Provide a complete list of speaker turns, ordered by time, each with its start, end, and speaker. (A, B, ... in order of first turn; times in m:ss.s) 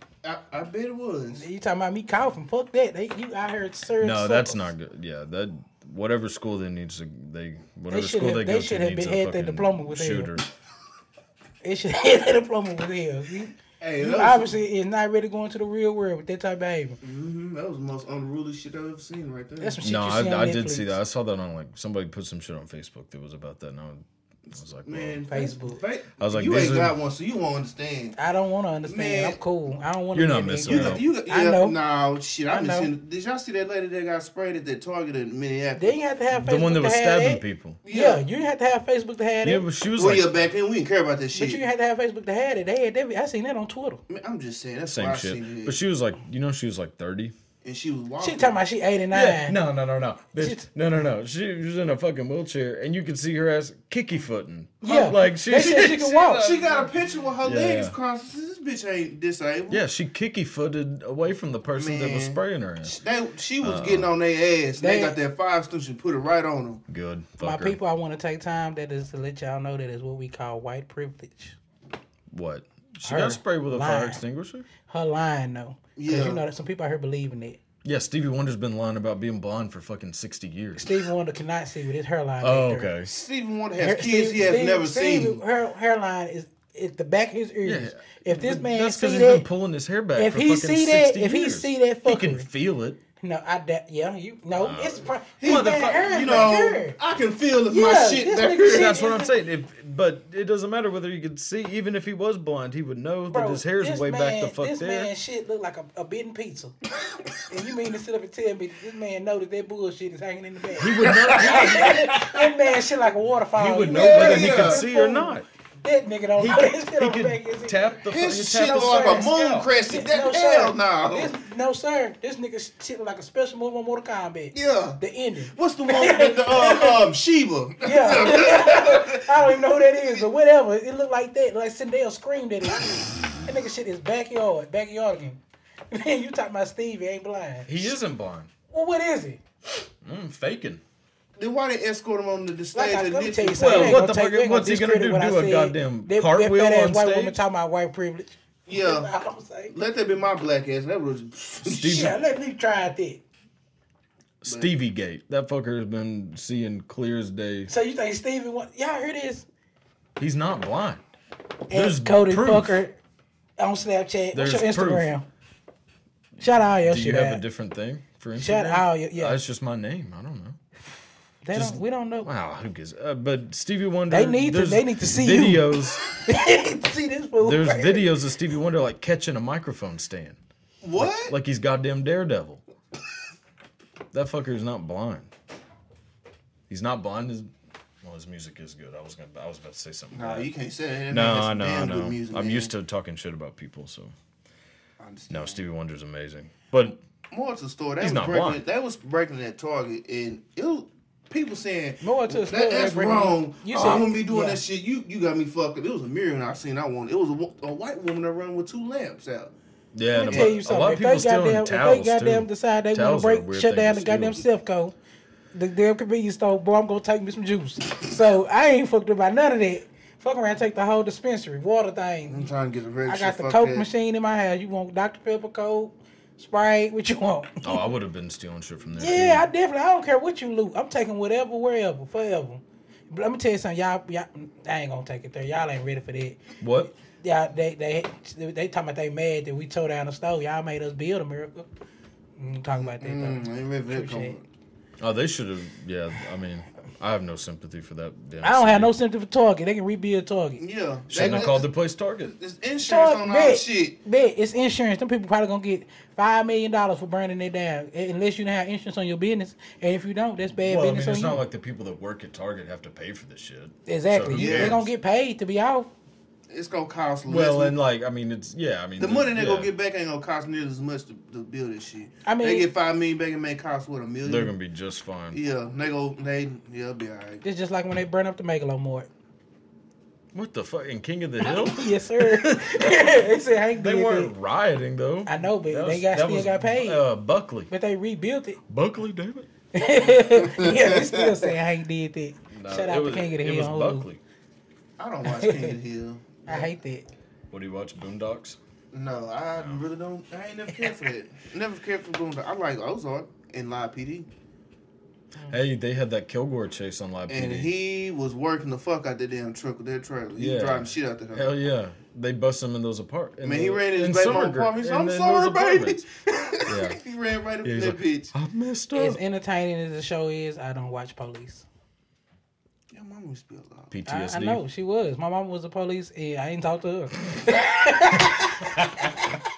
0:00.2-0:01.4 A
0:01.3-0:04.6 B
0:04.0-0:10.5 C
0:07.9-0:10.3 B
0:11.6-0:17.0 B
0:13.8-0:14.5 A
0:17.0-0:19.8 A
0:19.6-0:21.0 B
0:19.8-0:25.2 C
0:24.8-0:28.2 A
0:25.3-0:25.8 B
0:26.2-0:27.0 C
0:28.2-0:31.8 B
0:28.9-0:29.4 A
0:30.1-0:31.0 C
0:30.7-0:36.0 A
0:32.5-0:32.9 B
0:35.8-0:39.6 B
0:36.3-0:37.8 C
0:37.8-0:38.2 A
0:39.4-0:40.5 C
0:40.0-0:41.6 A
0:41.3-0:44.0 B
0:44.1-0:45.8 A
0:44.9-0:47.4 C
0:47.6-0:48.6 A
0:48.2-0:49.6 B
0:49.1-0:56.9 C
0:50.4-0:50.6 B
0:54.8-0:56.5 B
0:55.6-0:59.8 A
0:57.4-0:58.0 C
0:59.7-1:03.0 C
1:01.8-1:06.8 A
1:03.6-1:04.1 C
1:04.8-1:05.2 B
1:06.9-1:07.8 C
1:07.4-1:11.6 B
1:12.3-1:14.7 C
1:13.0-1:14.2 B
1:14.9-1:17.6 B
1:16.0-1:16.4 A
1:17.8-1:20.9 C
1:20.8-1:22.9 B
1:22.4-1:23.1 C
1:23.0-1:25.4 A
1:23.8-1:29.4 B
1:27.6-1:33.0 C
1:30.2-1:32.5 B
1:33.2-1:37.0 B
1:34.5-1:36.2 C
1:35.4-1:39.0 A
1:37.7-1:39.3 B
1:38.6-1:45.1 C
1:43.3-1:46.8 B
1:47.5-1:57.9 B
1:50.8-1:52.2 C
1:51.0-1:52.3 A
1:53.5-1:55.5 C
1:53.9-1:54.9 A
1:56.4-1:59.7 C
1:58.1-2:01.3 A
1:58.5-2:07.0 B
2:04.5-2:05.0 A
2:05.5-2:09.4 A
2:07.8-2:15.4 B
2:15.9-2:17.9 B
2:17.7-2:18.5 C
2:18.7-2:19.4 B
2:20.0-2:20.8 C
2:21.4-2:24.0 A
2:22.7-2:29.8 B
2:23.6-2:27.4 C
2:28.7-2:29.1 A
2:29.7-2:32.1 A
2:31.6-2:32.2 C
2:31.8-2:33.2 B
2:34.4-2:37.7 C
2:37.7-2:39.5 B
2:40.2-2:41.0 C
2:41.7-2:43.0 B
2:41.7-2:42.8 C
2:43.6-2:45.3 B
2:44.3-2:45.1 C
2:46.4-2:50.6 C
2:46.4-2:47.4 B
2:48.4-2:49.4 B
2:51.4-2:52.3 B
2:51.5-2:56.0 C
2:54.1-2:58.1 B
2:57.4-3:00.4 C
3:00.8-3:01.3 A
3:01.0-3:02.6 C
3:04.1-3:05.3 C
3:06.7-3:07.5 C
3:08.0-3:10.5 C
3:10.1-3:12.7 A
3:11.1-3:14.1 C
3:15.0-3:15.6 A
3:15.3-3:17.0 C
3:17.3-3:29.5 A
3:18.0-3:18.6 C
3:22.0-3:24.6 B
3:29.9-3:34.4 C
3:30.1-3:35.0 B
3:30.2-3:30.6 A
3:35.5-3:42.5 B
3:42.3-3:43.9 A
3:43.1-3:47.8 B
3:47.6-3:49.5 C
3:49.0-4:01.7 B
3:56.6-3:56.9 C
4:02.4-4:04.4 B
4:02.8-4:04.4 A
4:05.0-4:08.9 C
4:08.4-4:10.6 B
4:10.6-4:11.7 A
4:11.1-4:12.4 C
4:12.3-4:14.0 A
4:12.8-4:21.4 B
4:20.6-4:24.9 C
4:23.9-4:25.9 B
4:24.3-4:24.8 A
4:26.5-4:27.8 A
4:27.3-4:29.7 C
4:29.0-4:34.6 A
4:32.2-4:32.7 B
4:34.2-4:35.4 C
4:35.3-4:37.4 A
4:37.4-4:39.1 B
4:40.3-4:43.2 C
4:41.4-4:44.3 B
4:43.8-4:47.7 C
4:45.3-4:47.0 B
4:47.7-4:48.6 B
4:48.7-4:49.5 C
4:49.7-4:54.1 B
4:50.4-4:51.5 A
4:52.5-4:54.2 C
4:55.0-4:56.7 A
4:55.4-4:55.7 B
4:56.5-4:57.1 B
4:57.5-4:58.6 C
4:58.9-5:04.3 A
4:59.6-4:59.8 C
5:05.5-5:07.7 C
5:07.3-5:11.5 A
5:10.4-5:16.0 C
5:13.4-5:18.3 A
5:16.7-5:17.0 C
5:17.6-5:19.2 C
5:18.9-5:21.7 B
5:22.9-5:23.9 A
5:23.9-5:24.6 C
5:24.1-5:28.7 B